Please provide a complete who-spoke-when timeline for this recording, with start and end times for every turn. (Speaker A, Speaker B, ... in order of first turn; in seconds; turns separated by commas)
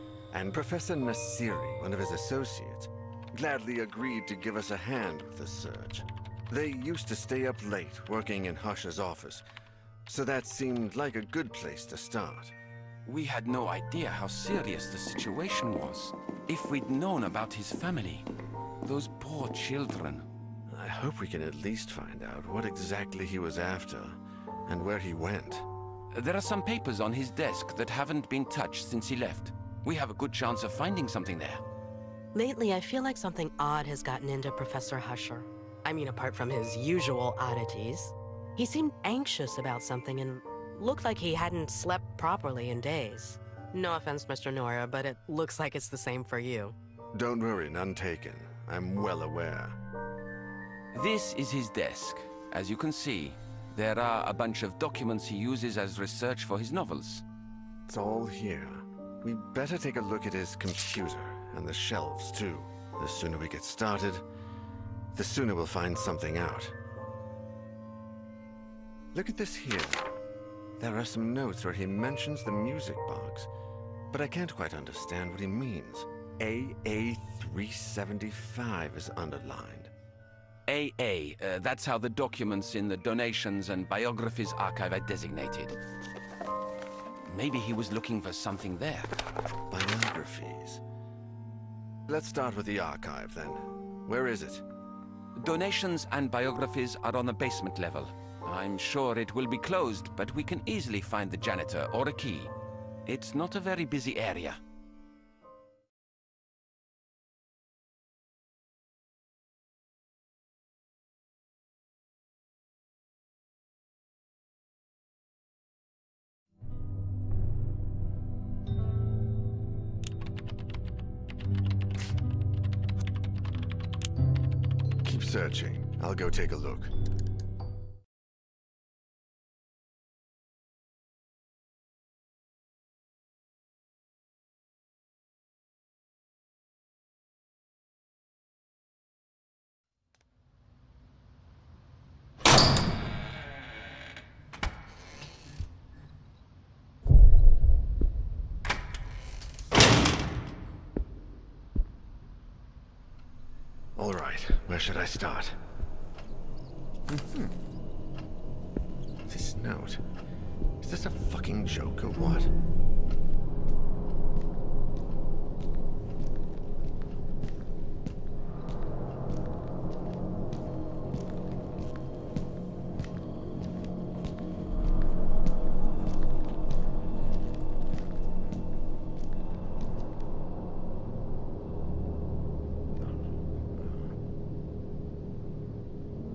Speaker A: 0.3-9.4, Speaker A: 10.1-12.5, Speaker B: 13.0-18.3, Speaker B: 18.8-20.3, Speaker A: 20.7-25.7, Speaker B: 26.1-31.6, Speaker C: 32.3-46.8, Speaker A: 47.1-49.8, Speaker B: 50.9-57.2, Speaker A: 57.9-64.2, Speaker A: 65.1-66.8, Speaker A: 69.1-70.0, Speaker A: 70.8-73.5, Speaker A: 74.1-79.9, Speaker B: 80.7-85.8, Speaker B: 87.2-89.1, Speaker A: 89.7-90.8, Speaker A: 92.1-94.6, Speaker B: 95.3-102.5, Speaker B: 103.0-104.6, Speaker A: 125.0-126.9, Speaker A: 153.9-155.6, Speaker A: 157.1-157.5, Speaker A: 159.3-160.0, Speaker A: 160.8-162.5, Speaker A: 183.0-184.1